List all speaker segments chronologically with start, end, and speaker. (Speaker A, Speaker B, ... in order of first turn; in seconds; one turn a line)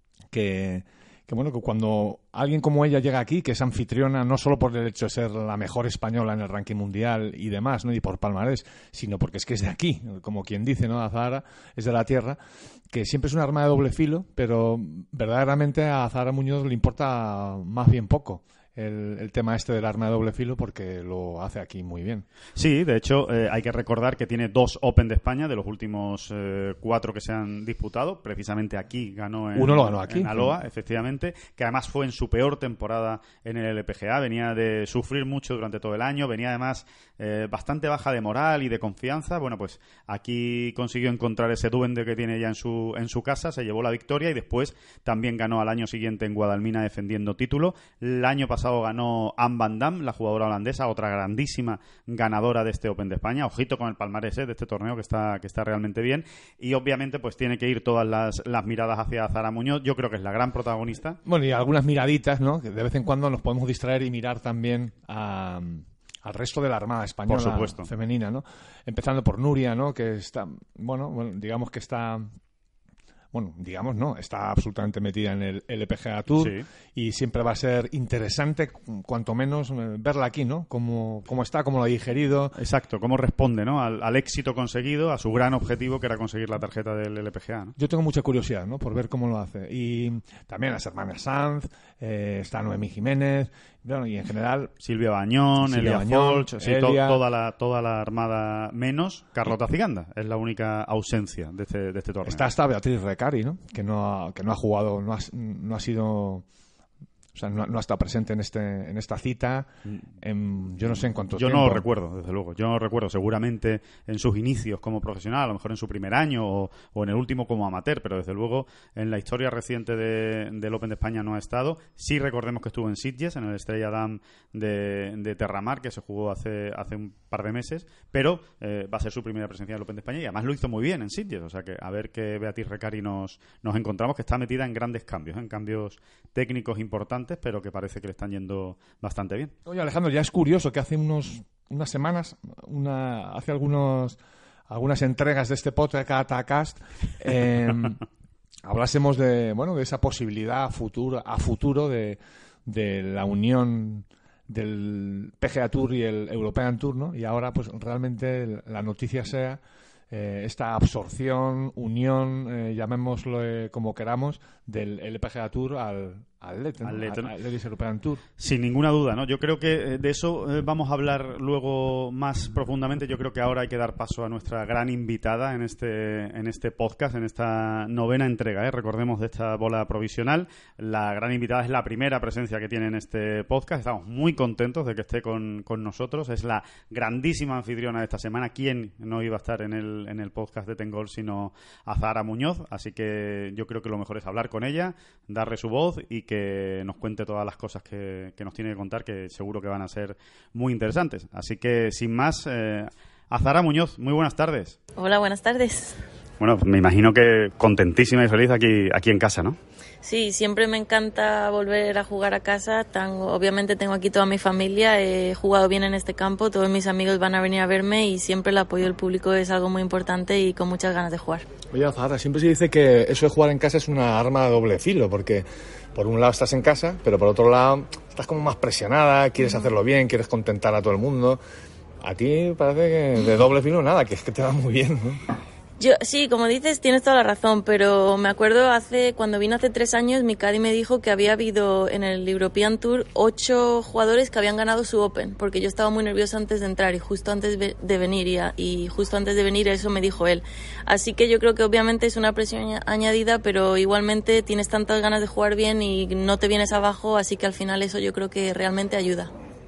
Speaker A: 0.3-12.4
Speaker A: 12.9-22.3
Speaker B: 22.6-61.2
Speaker A: 29.6-30.6
Speaker A: 61.2-72.3
Speaker B: 67.3-67.9
Speaker A: 73.3-82.6
Speaker B: 76.4-76.7
Speaker B: 82.6-87.7
Speaker A: 87.8-94.7
Speaker B: 94.8-102.4
Speaker A: 95.6-97.2
Speaker A: 102.2-106.5
Speaker A: 107.3-111.9
Speaker B: 111.3-139.5
Speaker A: 139.7-148.0
Speaker A: 148.7-168.2
Speaker B: 166.8-167.3
Speaker B: 168.4-204.8
Speaker C: 205.0-206.0
Speaker B: 206.4-209.6
Speaker C: 210.0-221.4
Speaker A: 221.7-231.4
Speaker A: 232.0-235.2
Speaker C: 235.8-259.3